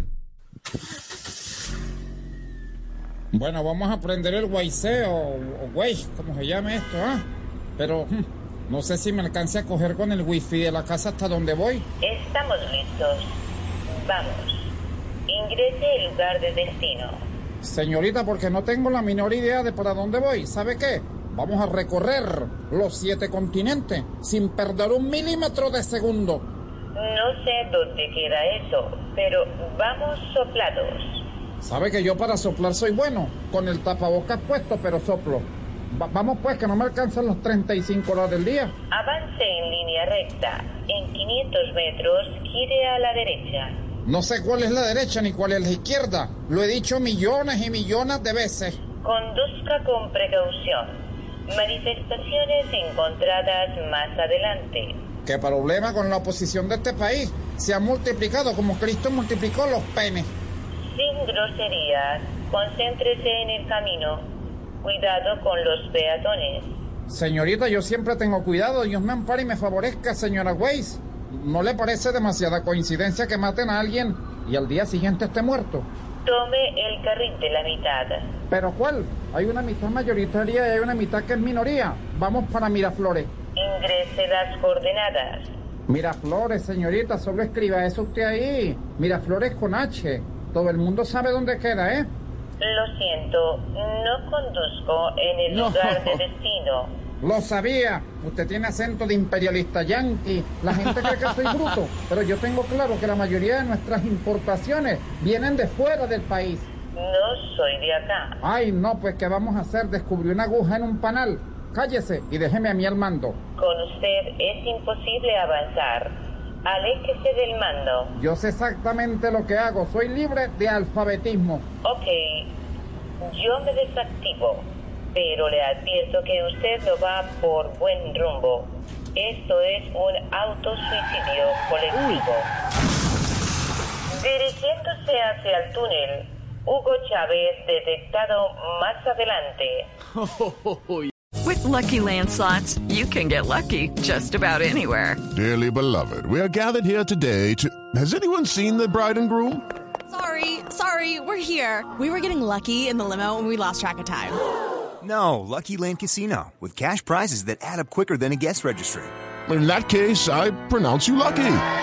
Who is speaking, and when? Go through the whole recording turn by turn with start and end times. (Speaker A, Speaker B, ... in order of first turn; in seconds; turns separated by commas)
Speaker A: 3.3-7.2, Speaker A: 7.8-11.8, Speaker B: 12.0-13.4, Speaker B: 13.9-14.7, Speaker B: 15.3-17.2, Speaker A: 17.6-26.5, Speaker B: 26.9-31.2, Speaker A: 31.6-38.7, Speaker B: 38.9-43.8, Speaker A: 44.0-48.8, Speaker B: 49.0-50.9, Speaker B: 51.5-55.0, Speaker A: 55.2-60.3, Speaker B: 60.9-64.2, Speaker B: 64.8-66.7, Speaker A: 67.1-75.9, Speaker B: 76.2-78.3, Speaker A: 78.5-83.3, Speaker B: 83.5-85.5, Speaker A: 85.9-92.1, Speaker B: 92.6-96.9, Speaker A: 97.2-106.7, Speaker B: 107.0-108.4, Speaker A: 108.4-113.4, Speaker B: 113.6-118.1, Speaker A: 118.2-121.7, Speaker B: 121.8-122.5, Speaker B: 123.2-132.5, Speaker B: 134.2-139.9, Speaker C: 141.4-145.2, Speaker D: 145.3-149.6, Speaker E: 150.1-154.4, Speaker F: 155.1-159.1, Speaker D: 159.5-161.6